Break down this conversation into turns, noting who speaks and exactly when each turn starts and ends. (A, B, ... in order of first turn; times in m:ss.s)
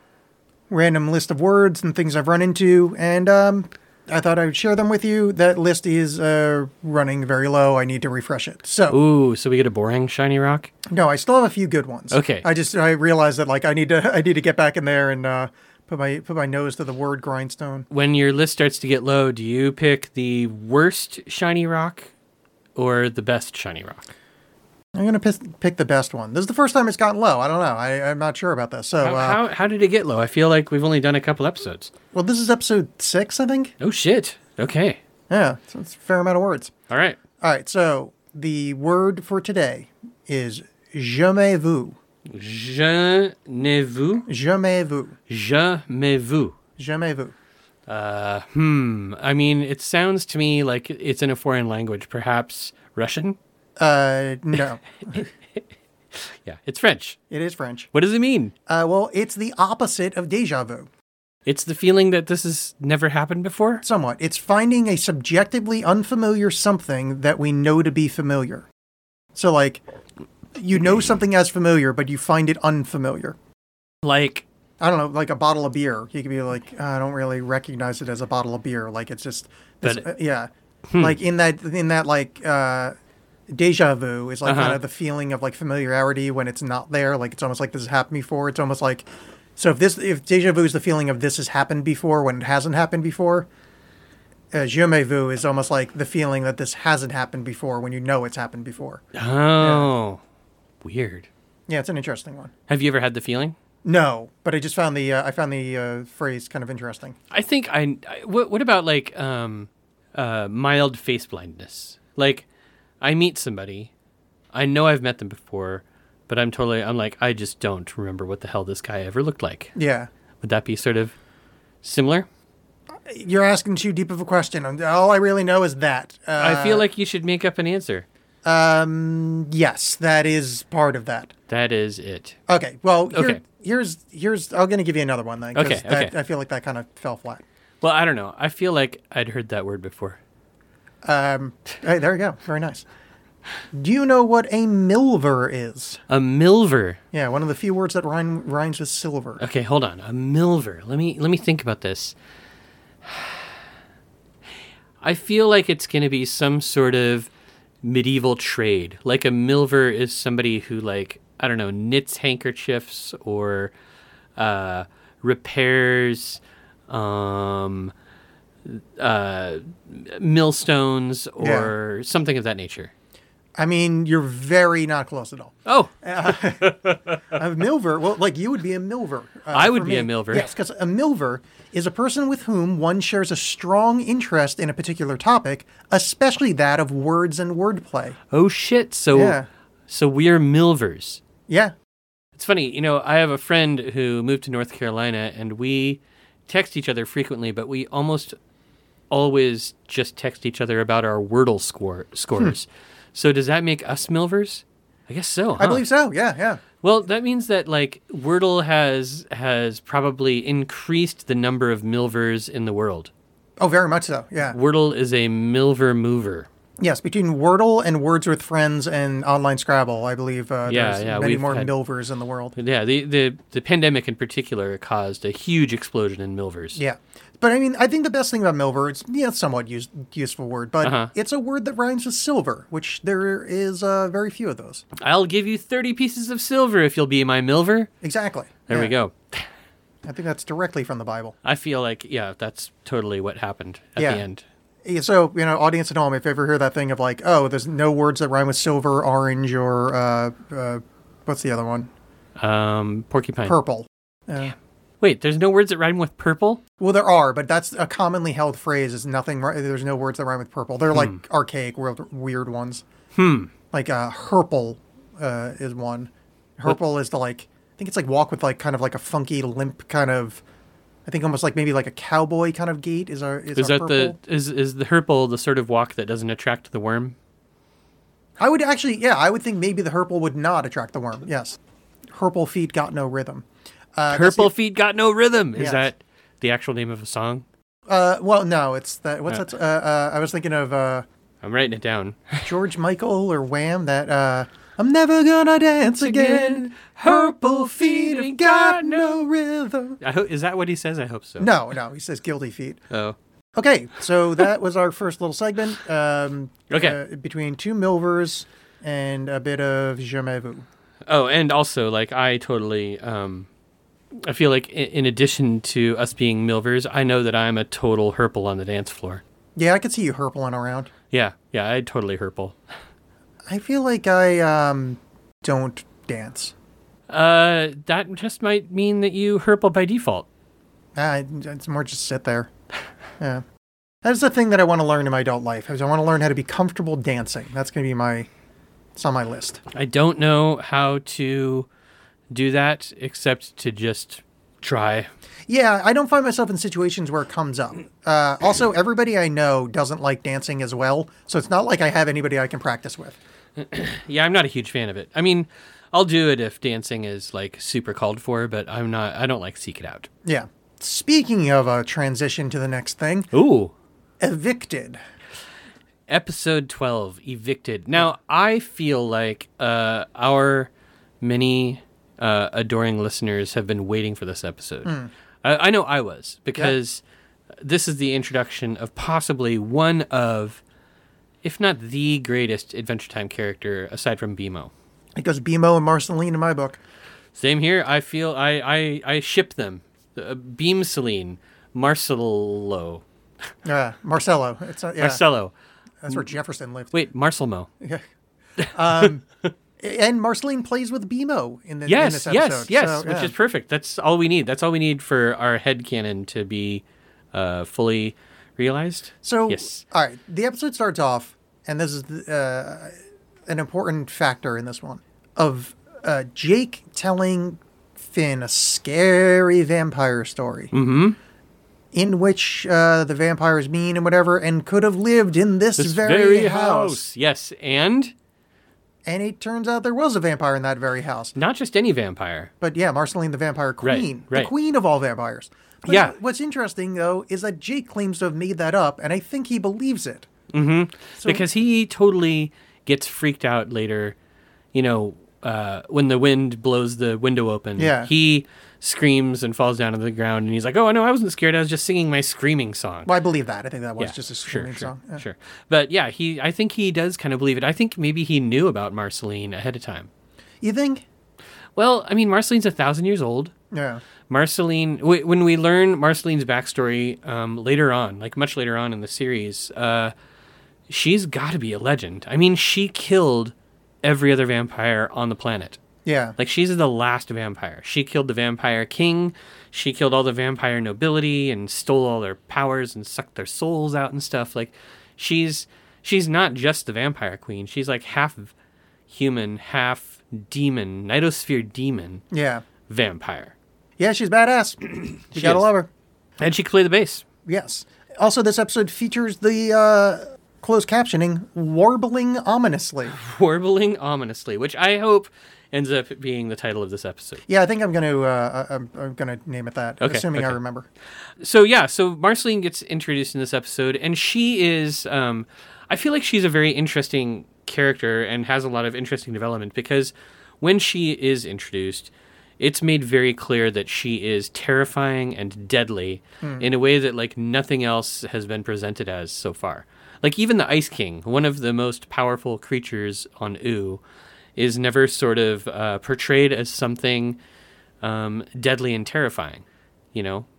0:00.7-0:09.0 A
0:08.9-0:10.7 B
0:10.9-0:17.9 A
0:12.1-0:12.5 B
0:17.9-0:22.1 B
0:22.8-0:24.0 B
0:24.9-0:29.4 A
0:29.0-0:31.9 B
0:32.1-0:33.7 A
0:33.8-0:35.0 B
0:35.3-0:36.7 A
0:36.9-0:37.2 B
0:37.4-0:42.0 A
0:42.3-0:44.3 B
0:44.3-0:45.2 A
0:45.3-0:46.6 B
0:46.8-0:47.3 A
0:47.9-0:53.4 B
0:53.8-0:55.3 A
0:55.2-0:55.6 B
0:56.1-0:57.2 B
0:57.3-0:57.9 A
0:57.9-0:58.5 B
0:58.7-1:00.9 A
1:01.4-1:03.8 B
1:03.8-1:08.6 A
1:09.3-1:09.8 A
1:10.6-1:13.4 A
1:14.0-1:14.4 B
1:14.8-1:22.9 A
1:20.9-1:21.2 B
1:23.5-1:33.5 A
1:24.4-1:24.8 B
1:34.5-1:39.0 A
1:39.1-1:40.2 B
1:39.6-1:39.9 A
1:40.8-1:41.3 B
1:41.7-1:42.5 A
1:42.7-1:43.6 B
1:43.8-1:47.2 A
1:47.3-1:52.5 B
1:53.0-1:53.9 B
1:54.5-1:59.7 B
1:59.8-2:00.1 A
2:00.4-2:01.1 B
2:01.8-2:02.3 B
2:03.0-2:06.8 A
2:06.4-2:08.0 B
2:08.4-2:11.3 A
2:11.5-2:12.4 B
2:12.5-2:17.4 A
2:13.1-2:13.4 B
2:15.5-2:16.1 B
2:17.8-2:20.2 B
2:21.0-2:22.9 A
2:23.7-2:26.0 A
2:26.1-2:27.0 B
2:27.1-2:29.4 A
2:29.4-2:32.1 B
2:33.0-2:33.4 B
2:35.0-2:37.3 B
2:37.8-2:43.7 B
2:44.4-2:47.9 B
2:48.6-2:52.9 B
2:51.4-2:51.7 A
2:53.6-2:56.8 A
2:55.6-2:57.2 B
2:57.3-3:08.2 A
2:59.5-3:00.5 B
3:08.3-3:11.2 B
3:09.1-3:09.5 A
3:11.5-3:11.7 A
3:12.3-3:18.4 B
3:19.1-3:25.8 B
3:25.6-3:26.6 A
3:26.8-3:33.1 B
3:33.6-3:34.6 A
3:34.4-3:36.5 B
3:36.8-3:42.5 A
3:40.7-3:41.7 B
3:42.6-3:46.8 B
3:46.8-3:54.8 A
3:50.8-3:51.1 B
3:55.0-3:57.9 B
3:58.0-3:58.9 A
3:58.7-3:59.5 B
4:00.0-4:01.3 A
4:01.4-4:04.4 B
4:04.0-4:04.2 A
4:04.8-4:11.9 A
4:12.4-4:13.6 B
4:13.5-4:14.5 A
4:14.4-4:16.6 B
4:16.8-4:22.8 A
4:20.9-4:21.2 B
4:23.1-4:23.5 B
4:23.7-4:30.4 A
4:31.0-4:34.2 A
4:33.5-4:37.2 B
4:38.4-4:41.6 A
4:42.1-4:44.5 A
4:44.1-4:47.4 B
4:45.6-4:45.8 A
4:47.9-4:51.0 A
4:51.4-4:52.5 B
4:52.4-5:00.0 A
4:56.0-4:59.2 B
5:00.0-5:01.5 B
5:01.4-5:02.8 A
5:02.9-5:03.2 B
5:03.5-5:10.6 A
5:06.7-5:07.0 B
5:11.0-5:13.5 B
5:14.1-5:19.2 B
5:19.6-5:20.9 A
5:21.1-5:22.6 B
5:23.4-5:26.5 A
5:27.1-5:30.2 B
5:30.9-5:32.5 A
5:34.0-5:38.3 A
5:38.9-5:39.6 A
5:39.7-5:41.7 B
5:42.3-5:45.1 B
5:45.5-5:53.2 A
5:53.6-6:00.1 B
6:00.2-6:03.3 A
6:03.3-6:03.7 B
6:04.2-6:05.0 A
6:06.1-6:17.0 B
6:14.8-6:15.1 A
6:17.6-6:20.6 B
6:21.4-6:24.7 B
6:25.2-6:26.8 A
6:27.4-6:33.0 B
6:33.6-6:35.2 A
6:35.0-6:35.5 B
6:36.0-6:36.9 A
6:36.9-6:37.7 B
6:38.6-6:39.0 B
6:38.7-6:39.2 A
6:39.8-6:43.3 A
6:41.8-6:49.8 B
6:49.2-6:53.0 A
6:53.5-7:00.7 A
7:00.7-7:01.2 B
7:01.9-7:07.0 A
7:05.8-7:08.1 B
7:09.0-7:11.3 A
7:11.3-7:12.5 B
7:12.6-7:20.3 A
7:13.8-7:14.5 B
7:15.8-7:16.1 B
7:20.5-7:24.1 B
7:21.2-7:21.4 A
7:24.7-7:33.1 B
7:27.8-7:28.1 A
7:33.0-7:35.2 A
7:34.0-7:40.1 B
7:40.6-7:41.0 A
7:41.8-7:43.5 B
7:43.7-7:44.0 A
7:44.3-7:50.1 B
7:50.9-7:55.8 B
7:56.0-7:56.4 A
7:56.4-8:08.5 B
8:09.1-8:12.2 B
8:12.3-8:12.6 A
8:12.9-8:13.5 B
8:14.0-8:15.9 A
8:15.3-8:15.6 B
8:16.4-8:17.2 B
8:17.4-8:23.2 A
8:23.1-8:27.4 B
8:27.4-8:30.9 A
8:30.0-8:30.6 B
8:31.4-8:54.0 B
8:54.6-8:57.4 B
8:58.0-9:00.5 B